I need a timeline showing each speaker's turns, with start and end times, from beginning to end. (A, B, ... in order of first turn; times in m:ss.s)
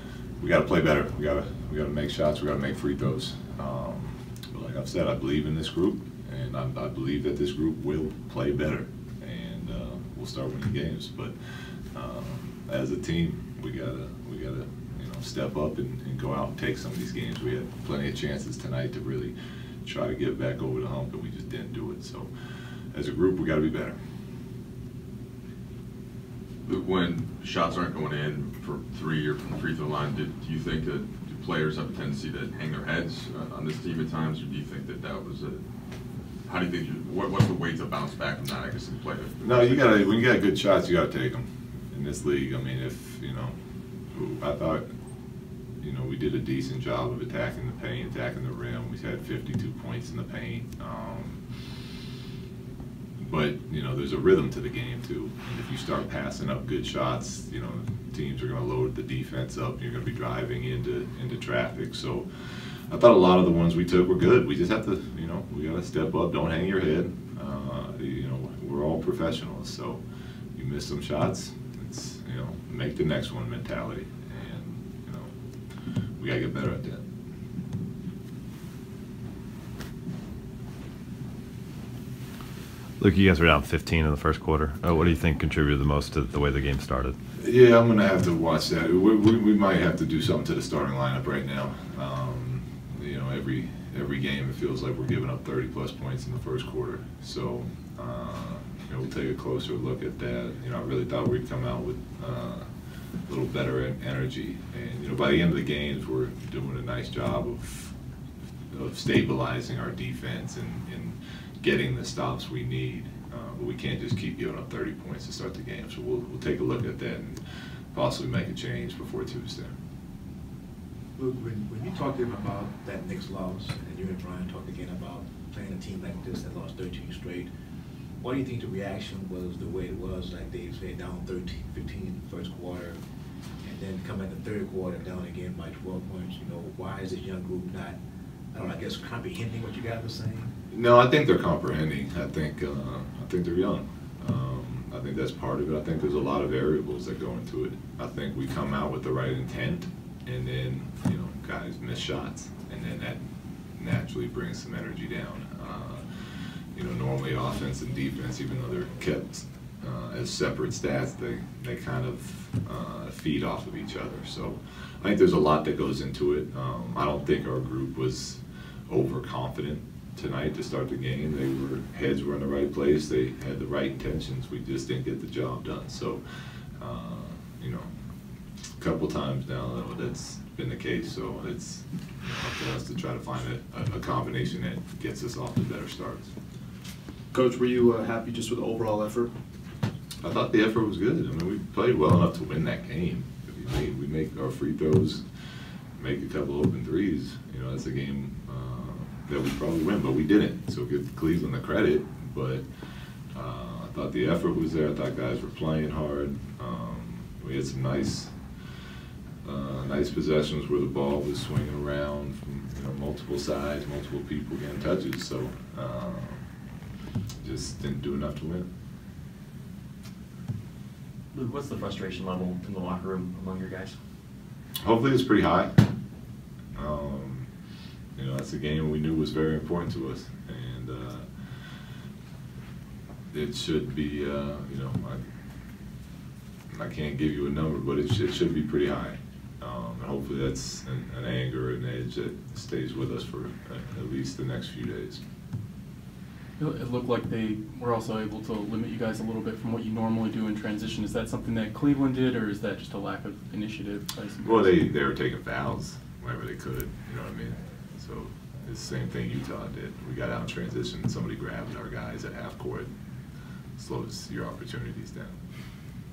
0:00.4-0:11.4 A
0:11.9-0:22.3 A
0:22.9-0:24.0 A
0:26.6-0:35.6 B
0:36.4-0:40.2 B
0:39.4-0:43.6 A
0:44.1-0:44.8 A
0:45.8-0:51.4 A
0:53.2-1:02.3 A
1:02.9-1:10.0 A
1:10.6-1:15.3 A
1:16.2-1:17.0 A
1:23.0-1:27.2 C
1:27.4-1:42.7 A
1:43.3-1:48.0 A
1:48.7-1:57.4 A
1:57.9-1:59.7 A
2:01.2-2:07.5 D
2:08.2-2:13.0 D
2:13.6-2:18.0 D
2:18.5-2:20.5 D
2:20.7-2:33.2 A
2:33.8-2:36.1 A
2:36.8-2:56.2 A
2:56.8-2:57.9 A
2:58.8-3:06.3 A
3:07.3-3:09.3 E
3:10.2-3:15.2 A
3:16.0-3:22.6 A
3:23.3-3:28.4 A
3:29.4-3:36.4 A
3:37.4-3:38.7 A
3:41.3-3:44.0 F
3:44.8-3:45.8 A
3:46.8-3:47.5 A
3:48.2-3:51.3 A
3:53.3-3:55.2 A
3:56.7-4:05.2 A
4:06.6-4:14.4 G
4:14.4-4:22.9 A
4:23.8-4:25.4 A